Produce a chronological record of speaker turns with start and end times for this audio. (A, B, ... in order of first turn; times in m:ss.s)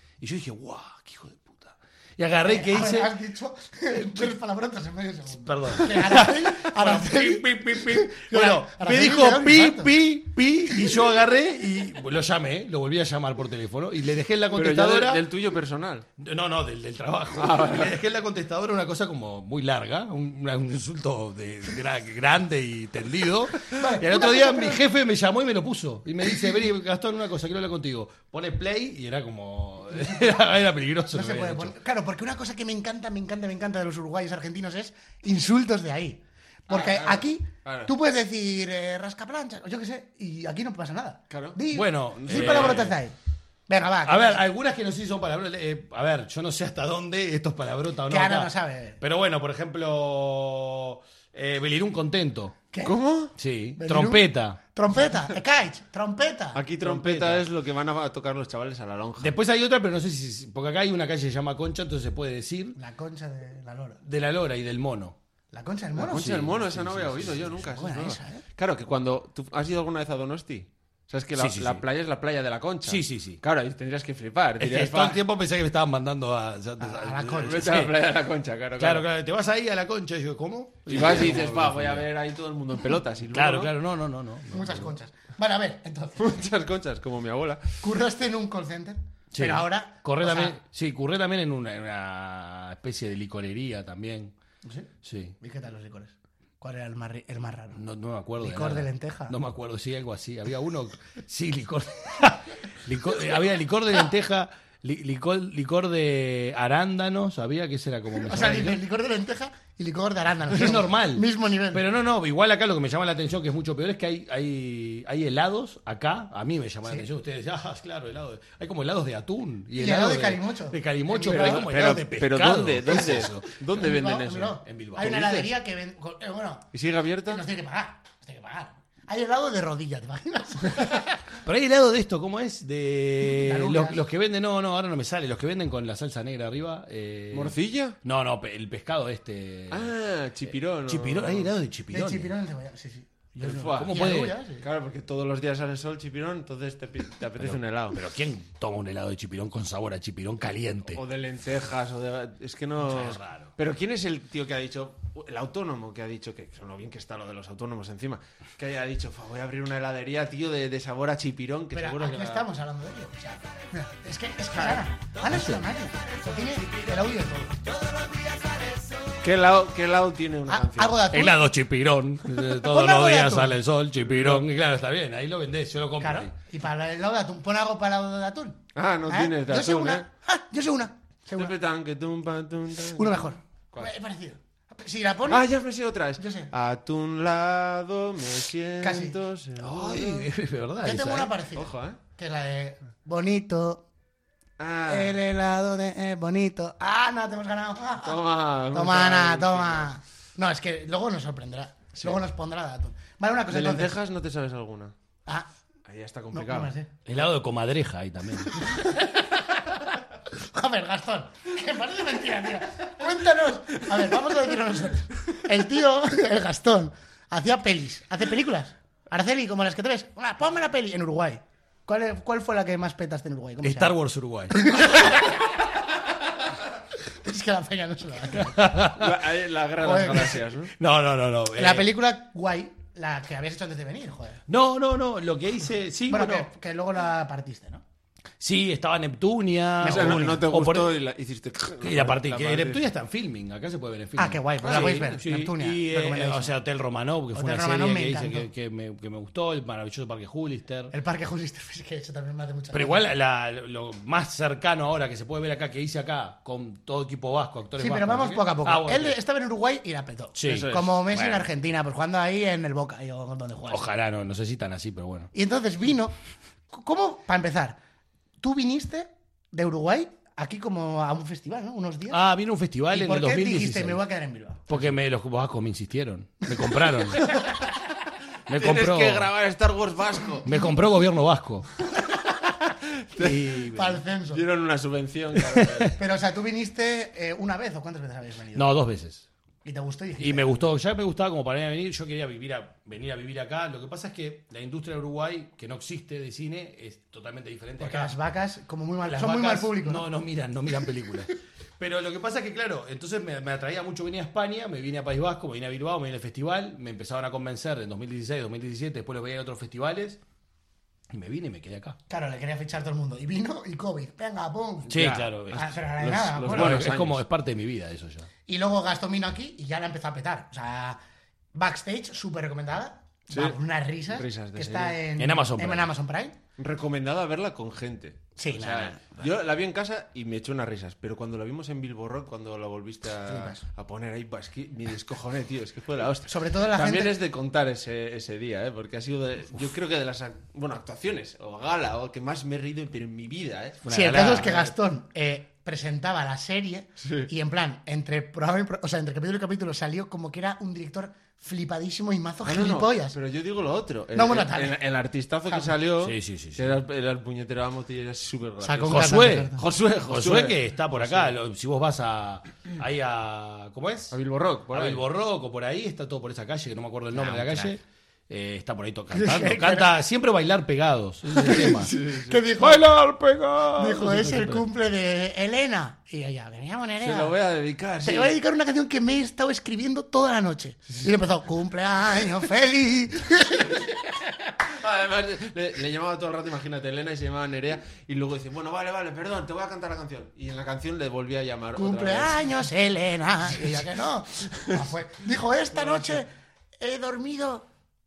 0:00.2-0:03.1 A
0:02.4-0:09.9 B
0:03.9-0:04.3 A
0:05.4-0:15.2 A
0:14.5-0:16.1 C
0:16.2-0:31.8 A
0:17.4-0:18.0 C
0:23.7-0:24.8 B
0:30.0-0:30.3 B
0:31.1-0:43.2 B
0:36.7-0:37.9 C
0:41.3-0:41.6 C
0:41.7-0:42.9 A
0:42.2-0:43.0 C
0:43.7-0:44.4 B
0:44.0-0:52.6 A
0:48.1-0:49.0 B
0:52.8-0:53.3 C
0:53.4-0:54.6 A
0:53.8-0:56.6 B
0:56.5-0:59.4 C
0:56.8-0:57.5 A
0:59.2-1:02.8 A
1:02.8-1:04.0 B
1:04.0-1:05.2 A
1:05.5-1:06.4 B
1:06.0-1:15.2 C
1:06.0-1:07.6 A
1:07.6-1:08.4 B
1:11.4-1:11.8 A
1:12.9-1:13.4 A
1:14.6-1:17.9 A
1:16.8-1:17.6 B
1:17.3-1:19.1 C
1:18.8-1:22.1 A
1:20.9-1:23.7 C
1:23.3-1:24.9 A
1:24.5-1:26.4 B
1:26.2-1:27.8 C
1:27.8-1:30.6 B
1:29.3-1:34.3 A
1:34.6-1:34.9 B
1:35.0-1:35.4 A
1:35.4-1:37.8 B
1:37.8-1:48.8 A
1:38.4-1:39.4 B
1:48.2-1:51.9 B
1:50.5-2:03.5 A
1:59.8-2:01.8 B
2:01.2-2:05.4 C
2:02.9-2:06.7 B
2:04.6-2:05.5 A
2:06.7-2:07.4 C
2:07.3-2:11.2 B
2:11.4-2:19.9 A
2:13.3-2:14.0 B
2:17.3-2:18.0 C
2:19.7-2:21.5 C
2:20.8-2:22.3 A
2:21.9-2:24.7 B
2:23.4-2:24.0 C
2:23.5-2:24.4 A
2:24.6-2:28.0 C
2:27.4-2:31.0 A
2:30.9-2:42.5 C
2:32.8-2:33.5 A
2:41.7-2:48.5 B
2:45.3-2:45.6 A
2:49.2-2:51.0 C
2:50.5-2:51.5 B
2:51.1-2:56.3 A
2:52.6-2:53.6 B
2:54.1-2:54.4 C
2:56.0-3:01.6 B
2:58.8-3:00.0 C
3:01.4-3:03.9 C
3:02.9-3:05.5 B
3:05.3-3:10.3 C
3:06.2-3:06.5 B
3:08.8-3:09.2 B
3:09.6-3:11.3 A
3:10.8-3:13.8 B
3:11.6-3:12.0 C
3:14.6-3:15.2 C
3:14.9-3:23.9 B
3:18.0-3:19.9 C
3:23.5-3:24.9 C
3:25.9-3:26.7 C
3:26.3-3:26.9 B
3:27.1-3:28.6 A
3:28.6-3:29.8 B
3:30.4-3:44.0 B
3:43.6-3:44.7 A
3:44.5-3:45.6 B
3:47.1-3:48.7 B
3:48.4-3:49.1 A
3:48.9-3:50.7 C
3:49.8-3:50.4 B
3:50.8-3:51.9 A
3:51.6-3:54.4 B
3:54.5-3:56.5 A
3:56.1-3:57.8 B
3:58.4-4:01.0 A
3:59.8-4:00.4 B
3:59.8-4:02.9 C
4:01.8-4:10.9 A
4:04.2-4:06.6 B
4:04.6-4:05.2 C
4:07.3-4:08.5 B
4:10.9-4:13.1 B
4:12.7-4:19.2 A
4:17.8-4:23.9 B
4:20.4-4:20.7 A
4:20.5-4:21.5 C
4:23.7-4:25.3 A
4:25.3-4:26.2 B
4:26.7-4:27.8 B
4:28.4-4:32.3 B
4:32.1-4:34.0 A
4:32.9-4:34.8 B
4:34.7-4:37.4 A
4:38.5-4:39.3 A
4:38.5-4:40.5 C
4:40.4-4:41.7 A
4:43.0-4:43.5 C
4:43.2-4:44.0 A
4:43.7-4:44.4 B
4:44.3-4:46.0 C
4:45.6-4:45.9 A
4:46.0-4:48.7 B
4:48.6-4:49.3 A
4:49.6-4:50.6 B
4:50.2-4:58.1 A
4:57.8-5:00.1 B
4:59.1-5:10.2 A
5:11.1-5:12.0 A
5:12.1-5:16.9 B
5:14.9-5:15.7 A
5:14.9-5:17.2 C
5:16.5-5:18.3 A
5:18.5-5:21.0 B
5:21.6-5:26.4 B
5:23.3-5:23.6 C
5:24.1-5:25.0 C
5:25.2-5:25.9 A
5:26.6-5:44.5 C
5:28.4-5:29.3 B
5:33.3-5:33.6 B
5:36.3-5:37.2 B
5:43.9-5:44.7 A
5:43.9-5:53.2 B
5:47.0-5:47.3 C
5:52.4-6:01.3 C
5:54.1-5:54.8 B
5:55.5-5:55.7 B
5:56.0-5:56.8 A
5:58.6-5:59.7 B
5:58.9-6:04.2 A
6:04.1-6:05.0 C
6:04.7-6:11.9 A
6:07.1-6:07.7 B
6:09.1-6:09.9 B
6:11.5-6:12.9 B
6:11.5-6:12.4 C
6:12.6-6:14.6 A
6:13.8-6:17.4 B
6:17.0-6:18.4 C
6:18.0-6:24.5 B
6:24.7-6:32.5 C
6:31.8-6:37.7 B
6:34.4-6:34.9 C